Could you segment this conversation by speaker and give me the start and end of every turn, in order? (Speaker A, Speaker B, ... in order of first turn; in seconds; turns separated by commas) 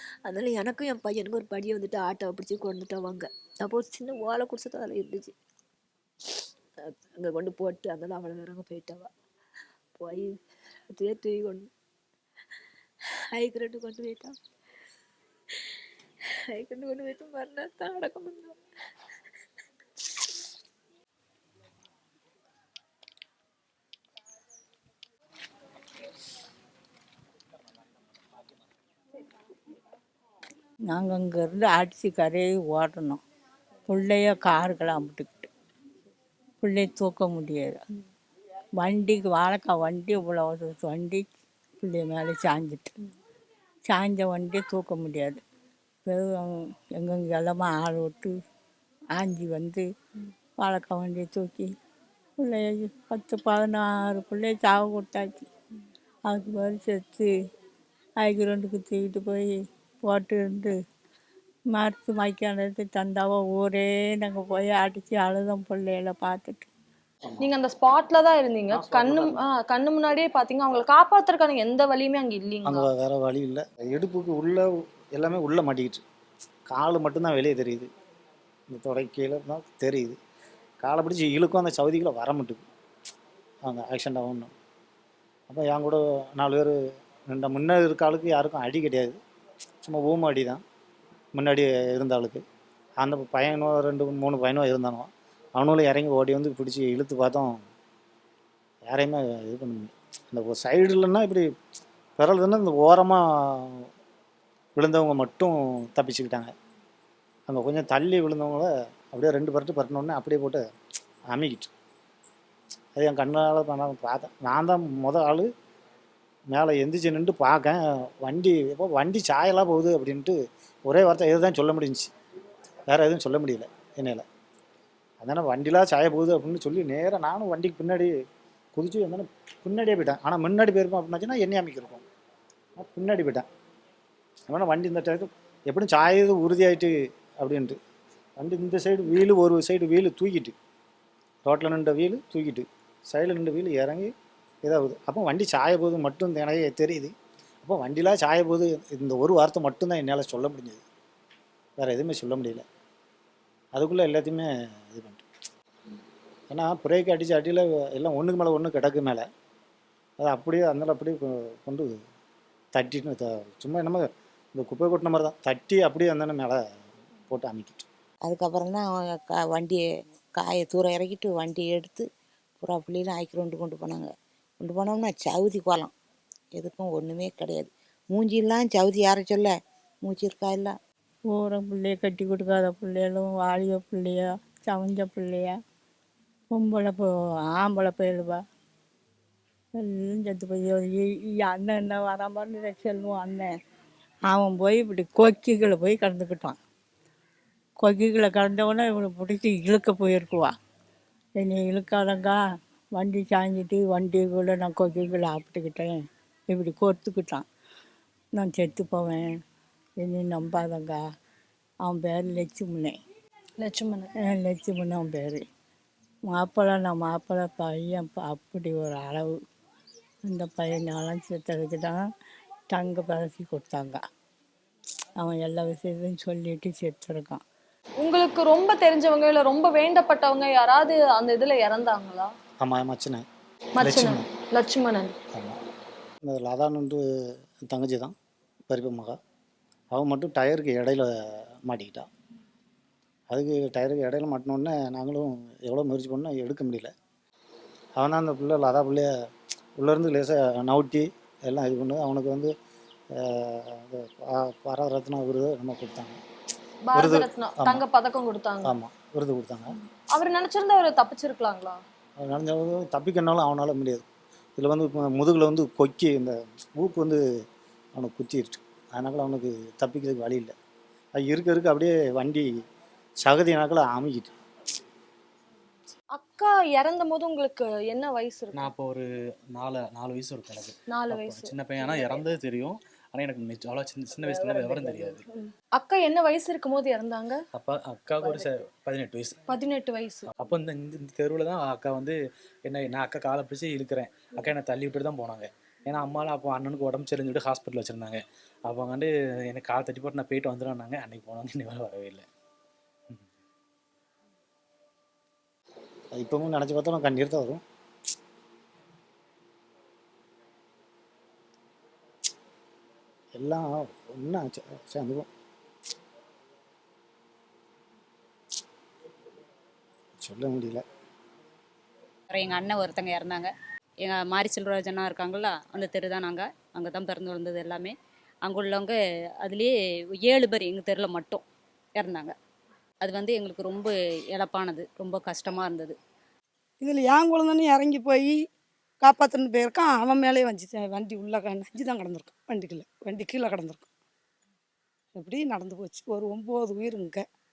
Speaker A: 0.2-5.3, Speaker A: 6.8-9.1, Speaker A: 10.0-10.4, Speaker A: 10.9-11.7, Speaker A: 13.3-14.3, Speaker A: 16.5-18.6, Speaker B: 30.9-33.2, Speaker B: 33.9-35.5, Speaker B: 36.6-37.8, Speaker B: 38.8-41.3, Speaker B: 41.8-43.0, Speaker B: 43.9-45.4, Speaker B: 46.0-48.3, Speaker B: 49.1-49.8, Speaker B: 50.6-51.7, Speaker B: 52.4-55.5, Speaker B: 56.2-57.3, Speaker B: 58.2-60.8, Speaker B: 61.7-66.7, Speaker C: 67.4-72.8, Speaker D: 68.7-69.4, Speaker D: 72.6-76.0, Speaker D: 76.7-77.9, Speaker D: 78.7-80.2, Speaker D: 80.8-82.6, Speaker D: 83.6-84.5, Speaker D: 85.5-86.8, Speaker D: 87.3-89.2, Speaker D: 89.8-90.6, Speaker D: 91.3-92.4, Speaker D: 93.0-97.6, Speaker D: 98.8-101.5, Speaker D: 102.2-103.9, Speaker D: 104.8-106.5, Speaker D: 107.5-110.6, Speaker D: 111.3-111.7, Speaker D: 112.9-115.5, Speaker D: 116.5-122.1, Speaker D: 122.9-124.2, Speaker D: 125.2-128.1, Speaker D: 128.8-132.0, Speaker D: 132.8-133.4, Speaker D: 134.5-137.8, Speaker D: 138.4-140.5, Speaker D: 141.4-144.1, Speaker D: 144.6-147.1, Speaker D: 147.6-150.8, Speaker D: 151.8-152.6, Speaker D: 153.7-155.2, Speaker D: 156.5-159.2, Speaker D: 160.2-161.9, Speaker D: 162.7-166.6, Speaker D: 167.3-167.9, Speaker E: 168.2-172.1, Speaker E: 172.6-175.9, Speaker E: 176.5-180.8, Speaker B: 181.3-185.5, Speaker B: 186.5-188.4, Speaker B: 189.8-193.5, Speaker B: 194.3-196.6, Speaker B: 197.8-200.5, Speaker B: 201.4-202.3, Speaker B: 202.9-207.4, Speaker B: 208.3-209.3, Speaker B: 210.0-211.0, Speaker B: 211.8-213.0, Speaker C: 213.6-214.1, Speaker B: 214.3-215.4, Speaker B: 216.3-219.3, Speaker B: 220.3-222.0, Speaker B: 222.7-224.0, Speaker B: 225.2-227.4, Speaker C: 228.0-232.3, Speaker D: 232.6-233.2, Speaker C: 233.8-235.1, Speaker D: 233.8-234.2, Speaker D: 236.2-237.0, Speaker D: 237.7-238.1, Speaker D: 238.7-239.2, Speaker D: 239.9-242.1, Speaker D: 243.3-246.9, Speaker D: 248.0-249.1, Speaker D: 249.8-252.5, Speaker D: 253.1-256.2, Speaker C: 256.8-258.7, Speaker D: 256.9-257.8, Speaker D: 258.6-259.7, Speaker C: 260.1-261.8, Speaker D: 262.2-264.0, Speaker D: 264.6-267.2, Speaker D: 267.9-270.5, Speaker D: 271.1-272.5, Speaker D: 273.2-274.3, Speaker C: 276.1-278.7, Speaker F: 278.5-285.2, Speaker C: 280.9-281.5, Speaker C: 285.3-287.4, Speaker F: 287.5-289.4, Speaker C: 289.5-290.3, Speaker F: 290.4-302.2, Speaker D: 306.1-307.6, Speaker D: 313.3-315.3, Speaker D: 320.2-320.8, Speaker G: 322.3-323.5, Speaker G: 324.0-327.9, Speaker G: 328.4-331.4, Speaker G: 332.0-332.3, Speaker G: 333.0-335.9, Speaker H: 336.8-338.4, Speaker H: 339.0-343.9, Speaker H: 345.1-347.2